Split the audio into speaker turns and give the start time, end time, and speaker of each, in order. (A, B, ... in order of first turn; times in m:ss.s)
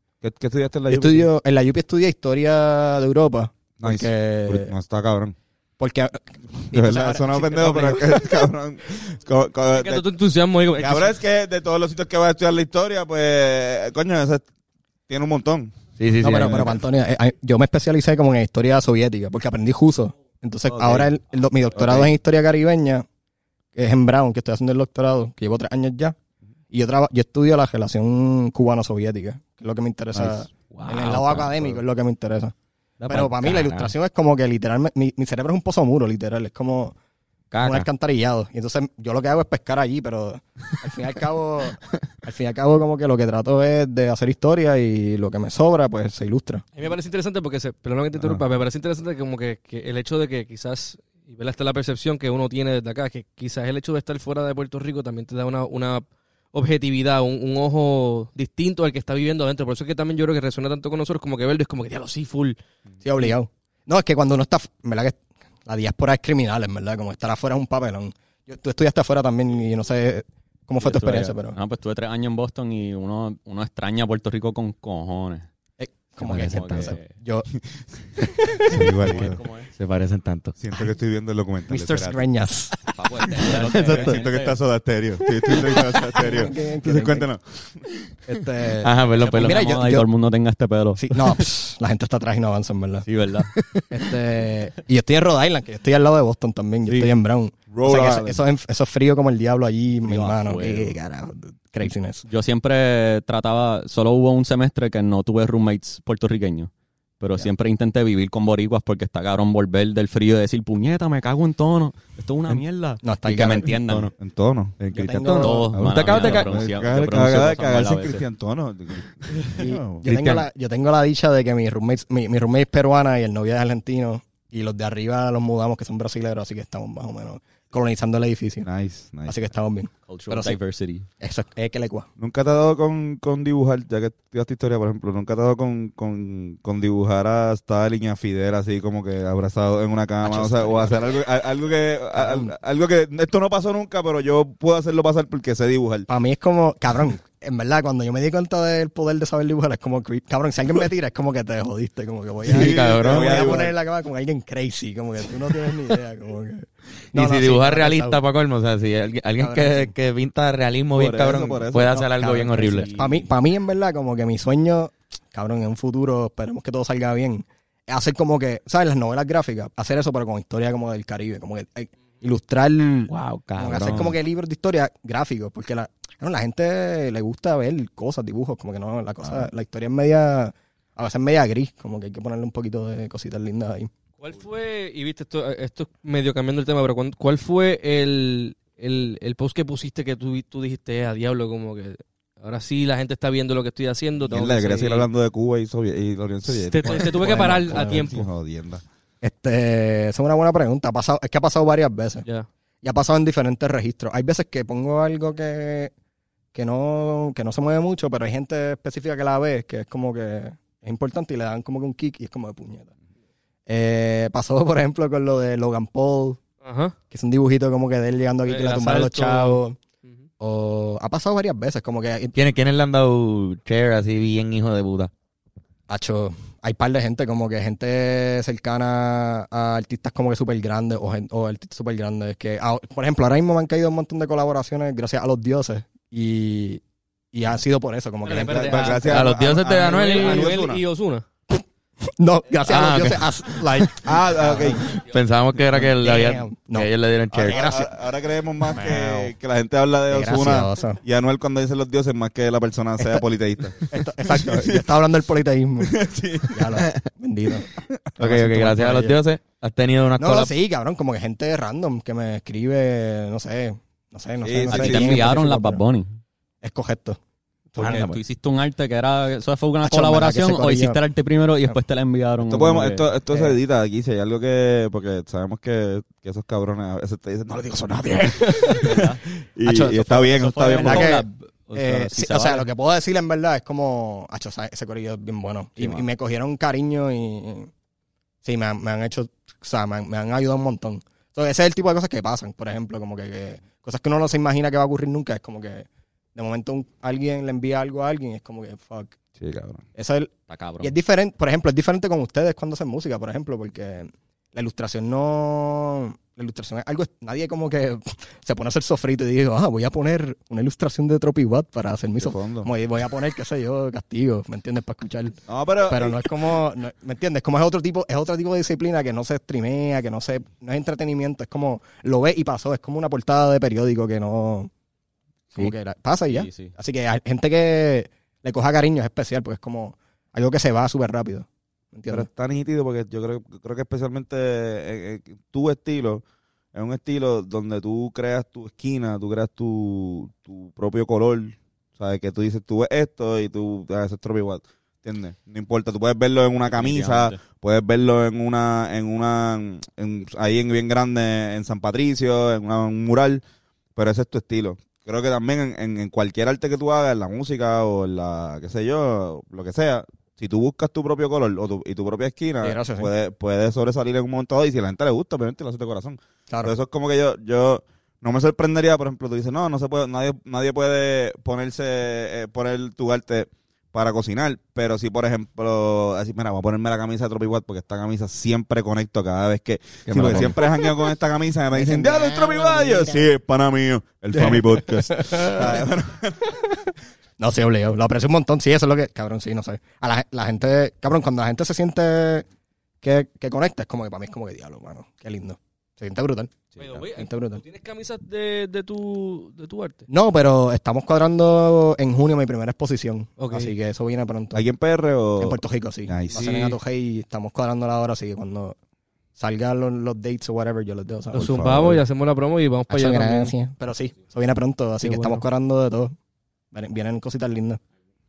0:00.2-0:01.3 A
0:00.9-0:04.7 B
0:03.8-0:05.3 A
0:05.8-0:08.5 B
0:06.7-0:10.0 A
0:09.7-0:11.2 C
0:10.8-0:14.4 A
0:15.1-0:16.7 A
0:16.0-0:16.8 D
0:16.2-0:23.0 B
0:20.7-0:21.1 E
0:23.7-0:26.1 B
0:26.7-0:32.5 B
0:30.5-0:31.8 D
0:33.0-0:33.9 D
0:33.0-0:36.9 B
0:37.5-0:37.9 D
0:37.6-0:46.6 B
0:46.8-1:02.6 C
0:48.2-0:48.4 A
1:03.0-1:11.6 B
1:10.8-1:15.5 E
1:15.8-1:17.5 B
1:16.2-1:17.0 D
1:16.4-1:17.1 E
1:18.2-1:18.8 B
1:18.7-1:19.4 A
1:18.7-1:20.6 D
1:19.0-1:19.7 E
1:20.6-1:22.2 A
1:21.7-1:24.1 B
1:22.9-1:24.6 E
1:23.5-1:27.9 A
1:23.7-1:24.1 D
1:25.9-1:27.3 B
1:28.2-1:30.1 B
1:28.8-1:29.7 D
1:29.1-1:31.4 E
1:31.0-1:33.1 B
1:33.0-1:33.5 E
1:33.6-1:33.8 D
1:33.9-1:42.2 B
1:37.7-1:38.4 A
1:40.0-1:41.0 E
1:42.3-1:54.1 E
1:53.0-1:53.8 B
1:53.9-1:54.8 A
1:54.8-1:56.6 D
1:54.9-1:55.7 B
1:55.4-1:58.2 E
1:55.7-2:00.0 A
1:59.6-2:08.7 B
2:00.0-2:00.5 D
2:08.6-2:09.3 A
2:09.2-2:10.6 B
2:10.1-2:11.1 E
2:11.2-2:12.1 B
2:12.2-2:26.1 A
2:20.2-2:20.9 B
2:20.6-2:20.8 E
2:22.1-2:22.5 B
2:26.1-2:38.2 B
2:32.4-2:33.7 A
2:32.5-2:33.4 D
2:37.1-2:42.9 D
2:39.4-2:39.9 B
2:40.9-2:42.0 A
2:41.9-3:03.9 B
2:42.7-2:43.2 E
2:53.1-2:54.2 D
3:04.2-3:15.1 C
3:14.3-3:18.8 A
3:16.5-3:18.2 C
3:16.8-3:18.2 B
3:19.2-3:22.2 B
3:22.8-3:25.9 B
3:26.5-3:32.9 B
3:33.7-3:36.4 B
3:36.6-3:36.9 C
3:37.1-3:39.8 B
3:38.5-3:40.2 C
3:40.4-3:42.4 B
3:42.4-3:45.1 D
3:45.9-3:56.8 B
3:57.3-3:59.1 B
3:58.2-4:01.2 C
3:58.4-4:00.8 A
3:59.0-4:00.5 D
4:01.5-4:05.0 B
4:02.6-4:03.9 D
4:03.9-4:05.0 A
4:04.9-4:07.6 D
4:05.7-4:07.9 B
4:07.3-4:14.9 A
4:08.7-4:09.3 B
4:10.1-4:11.0 B
4:13.9-4:16.0 B
4:15.8-4:16.8 A
4:16.5-4:19.2 B
4:18.2-4:20.5 D
4:20.2-4:25.8 B
4:24.4-4:25.2 A
4:24.7-4:26.2 E
4:26.6-4:27.2 B
4:27.7-4:28.1 B
4:27.8-4:28.2 D
4:27.8-4:33.0 E
4:29.8-4:31.0 B
4:32.4-4:41.2 A
4:33.3-4:33.6 B
4:38.3-4:39.0 B
4:38.8-4:39.2 E
4:39.6-4:47.7 B
4:40.1-4:42.7 E
4:45.8-4:46.0 E
4:48.4-4:59.2 B
4:59.4-4:59.8 A
4:59.9-5:24.7 B
5:00.5-5:00.9 E
5:12.2-5:12.7 A
5:15.5-5:16.5 A
5:25.5-5:32.3 B
5:26.3-5:26.7 E
5:32.1-5:36.2 A
5:36.7-5:53.4 A
5:46.7-5:47.4 E
5:54.0-6:26.5 A
6:02.6-6:03.1 B
6:06.5-6:06.7 B
6:20.1-6:20.6 D
6:21.7-6:23.3 B
6:24.3-6:25.8 B
6:26.4-6:26.9 B
6:27.4-6:32.4 B
6:33.0-6:36.5 B
6:36.7-6:37.0 A
6:36.8-6:40.0 C
6:37.1-6:37.6 B
6:40.1-6:44.6 B
6:43.4-6:43.7 C
6:44.5-6:46.4 A
6:45.4-6:48.8 B
6:46.3-6:46.8 C
6:49.4-6:51.6 B
6:51.3-6:53.5 C
6:51.3-6:52.0 A
6:52.9-6:56.1 B
6:55.0-6:55.4 C
6:56.7-6:57.8 B